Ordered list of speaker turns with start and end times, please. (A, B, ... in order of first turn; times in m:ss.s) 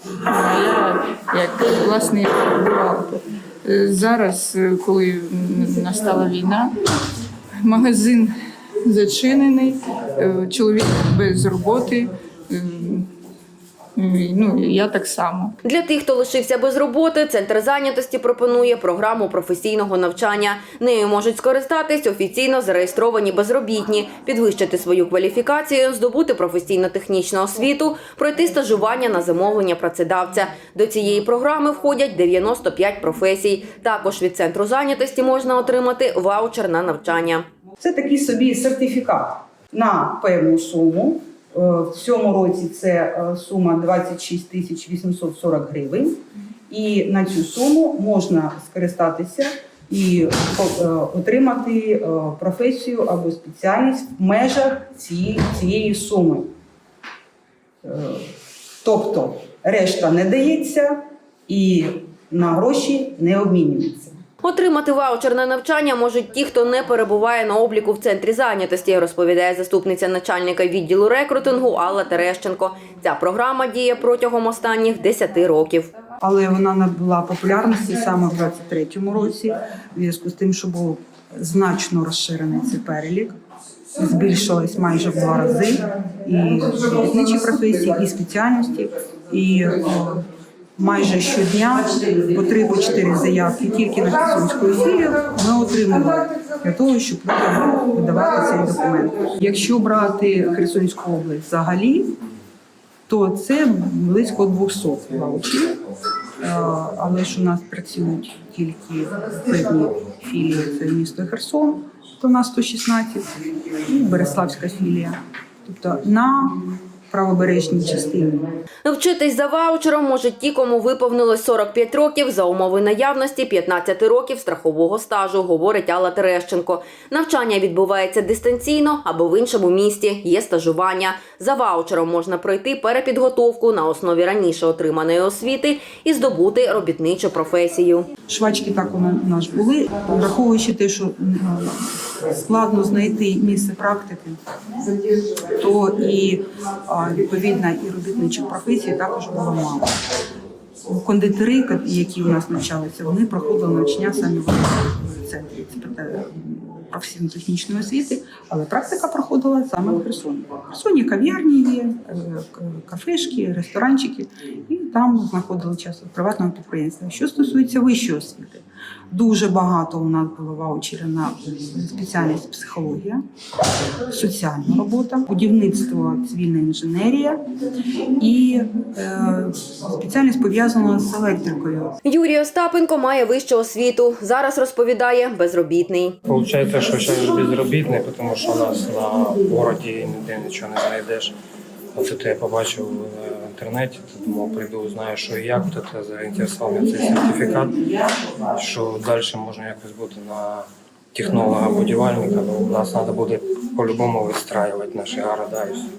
0:00.2-0:06.8 A
0:07.6-0:13.1 A
0:14.0-0:15.5 A
0:15.6-0:37.4 B
0:37.8-0:46.2 C
0:46.7-0:56.5 C
0:57.8-0:58.3 C
0:58.8-1:04.1 C
1:04.4-1:15.9 B
1:16.2-1:23.3 C
1:24.0-1:30.2 C
1:30.8-1:42.1 C
1:43.1-1:45.8 C
1:46.4-1:58.5 C
1:58.8-2:18.1 B
2:18.3-2:21.8 C
2:22.4-2:24.4 C
2:25.5-2:29.9 C
2:30.9-2:53.2 C
2:54.1-2:57.4 C
2:58.2-3:02.0 C
3:02.0-3:06.2 B
3:06.3-3:11.3 D
3:12.0-3:17.8 D
3:18.5-3:25.9 D